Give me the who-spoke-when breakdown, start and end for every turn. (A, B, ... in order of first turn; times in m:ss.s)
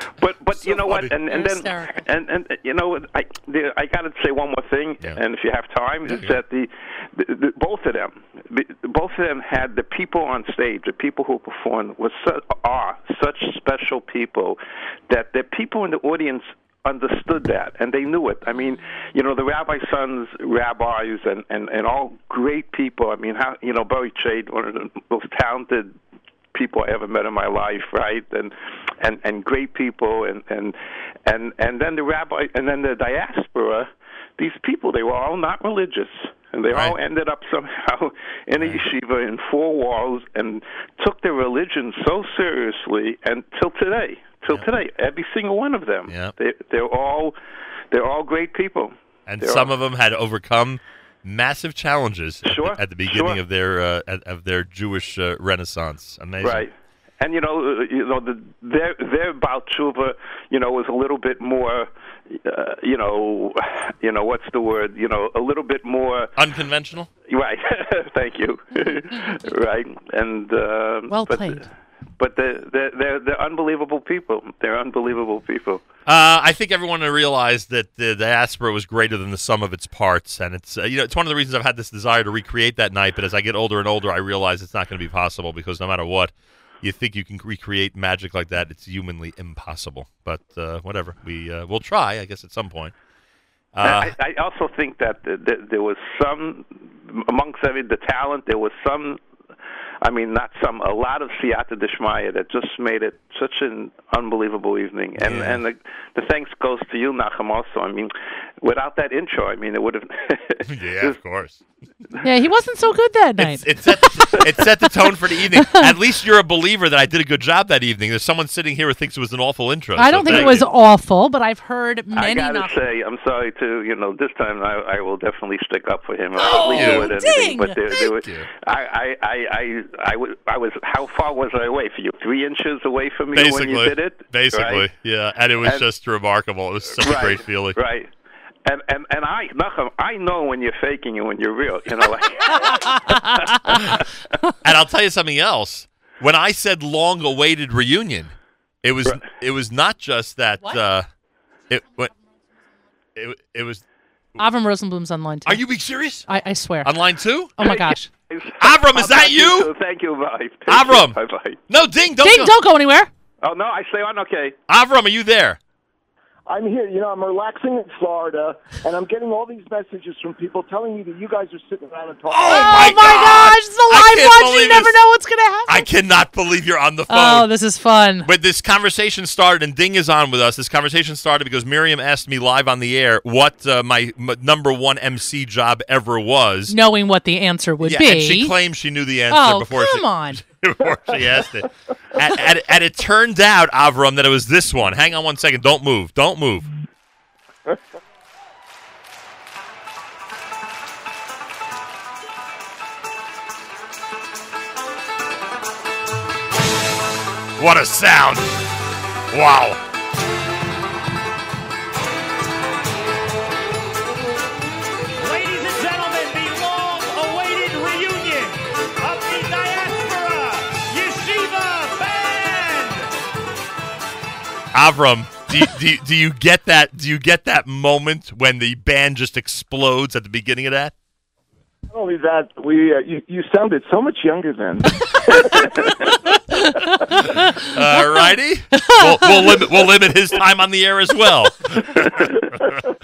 0:00.2-0:25.9 A
0:00.6-0:01.1 B
0:01.3-0:02.0 C
0:06.1-0:06.4 B
0:26.5-0:47.3 A
0:36.7-0:37.0 B
0:38.6-0:38.8 B
0:46.1-0:46.3 B
0:47.9-0:49.7 A
0:49.3-0:56.7 B
0:52.4-0:53.4 A
0:56.4-1:06.3 A
1:06.4-1:07.1 B
1:07.3-1:11.6 A
1:11.1-1:11.6 C
1:12.2-1:15.8 A
1:16.0-1:32.9 B
1:33.7-1:34.1 B
1:33.8-1:39.2 A
1:40.0-1:51.2 A
1:45.2-1:45.6 B
1:50.6-1:51.6 B
1:52.2-1:53.7 C
1:53.4-2:00.7 B
1:55.6-1:55.9 C
2:00.0-2:02.7 C
2:00.2-2:00.6 A
2:02.1-2:14.8 A
2:06.4-2:08.1 C
2:06.5-2:07.1 B
2:08.1-2:08.5 B
2:13.3-2:17.8 B
2:17.0-2:18.1 A
2:18.6-2:24.1 A
2:22.5-2:23.7 C
2:23.7-2:24.0 B
2:24.6-2:31.1 B
2:31.7-2:32.1 B
2:33.2-2:33.8 B
2:34.4-2:35.6 C
2:35.4-2:36.3 B
2:36.3-2:36.9 C
2:36.8-2:37.6 B
2:37.6-2:38.1 C
2:37.6-2:41.6 A
2:38.6-2:39.7 B
2:40.7-2:41.2 B
2:41.7-2:42.5 B
2:42.2-2:43.1 C
2:43.4-2:44.6 A
2:44.7-2:45.6 B
2:46.5-2:53.1 D
2:52.3-2:55.0 B
2:52.5-2:55.9 C
2:55.7-2:57.5 B
2:57.1-2:58.3 C
2:58.2-3:06.8 B
3:06.7-3:08.6 C
3:07.8-3:16.7 B
3:09.3-3:10.4 C
3:27.6-3:28.6 B
3:29.3-3:29.8 B
3:35.2-3:43.1 E
3:44.7-3:50.9 B
3:51.9-3:56.0 D
3:55.3-3:55.8 A
3:56.7-3:57.0 C
3:57.2-4:02.8 B
3:58.8-3:59.6 C